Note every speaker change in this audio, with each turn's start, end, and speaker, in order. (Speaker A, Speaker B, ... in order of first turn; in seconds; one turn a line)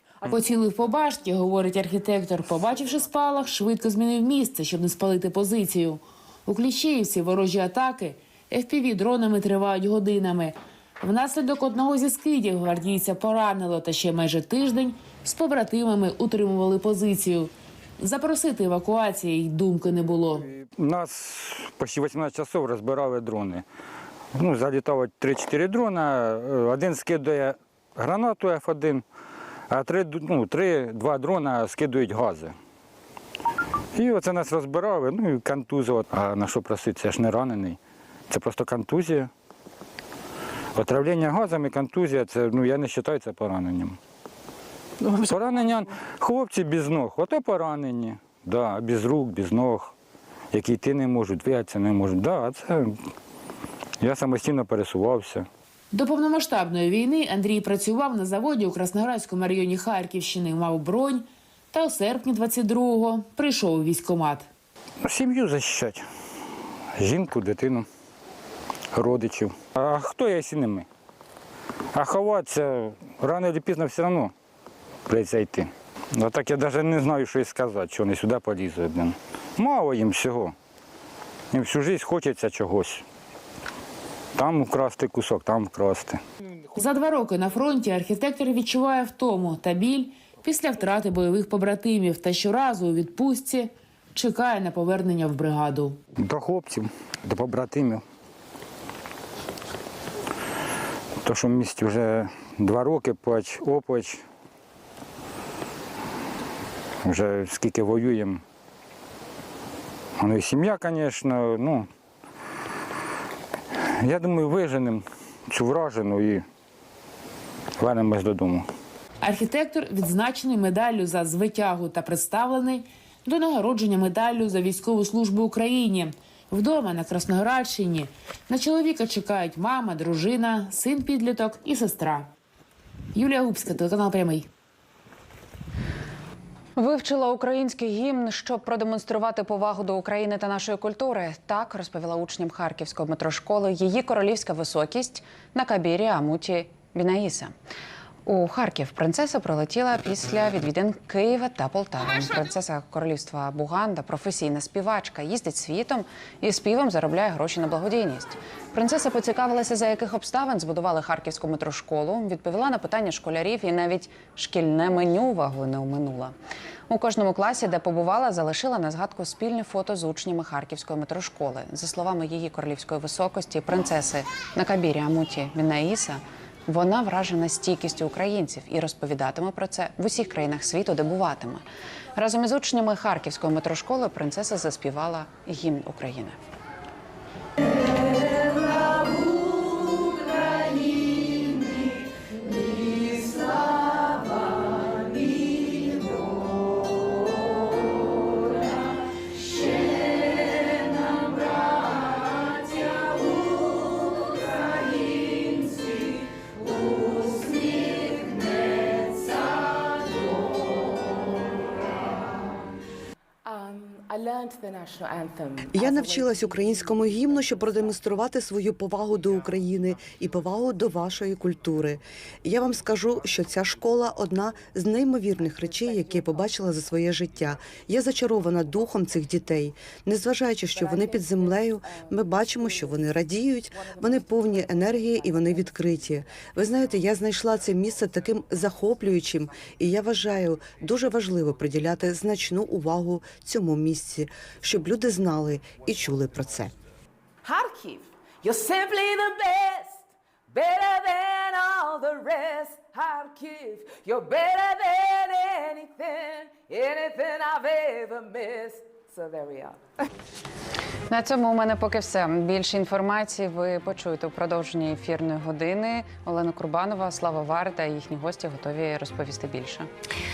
Speaker A: 0.2-20.5
Speaker B: 20.5-23.6
Speaker B: 24.4-29.0
Speaker B: 29.7-32.5
Speaker B: 33.9-37.8
Speaker B: 38.3-39.3
Speaker B: 40.8-44.0
Speaker B: 45.0-49.9
Speaker B: 50.5-53.0
Speaker B: 54.0-55.5
Speaker A: 55.9-64.5
Speaker B: 65.0-66.0
Speaker B: 67.0-67.9
Speaker B: 68.9-70.9
Speaker B: 71.9-74.3
Speaker B: 75.1-80.5
Speaker B: 81.5-83.0
Speaker B: 84.3-86.2
Speaker A: 86.8-96.0
Speaker B: 96.2-98.0
Speaker B: 101.2-104.2
Speaker B: 107.0-108.4
Speaker B: 110.2-111.9
Speaker B: 113.7-116.4
Speaker B: 117.8-118.7
Speaker A: 119.2-132.3
Speaker A: 133.1-134.5
Speaker C: 136.8-147.5
Speaker C: 148.2-166.3
Speaker C: 166.9-181.6
Speaker C: 182.2-186.4
Speaker D: 213.4-216.8
Speaker E: 215.7-246.7
Speaker D: 247.4-259.8
Speaker C: 261.1-269.9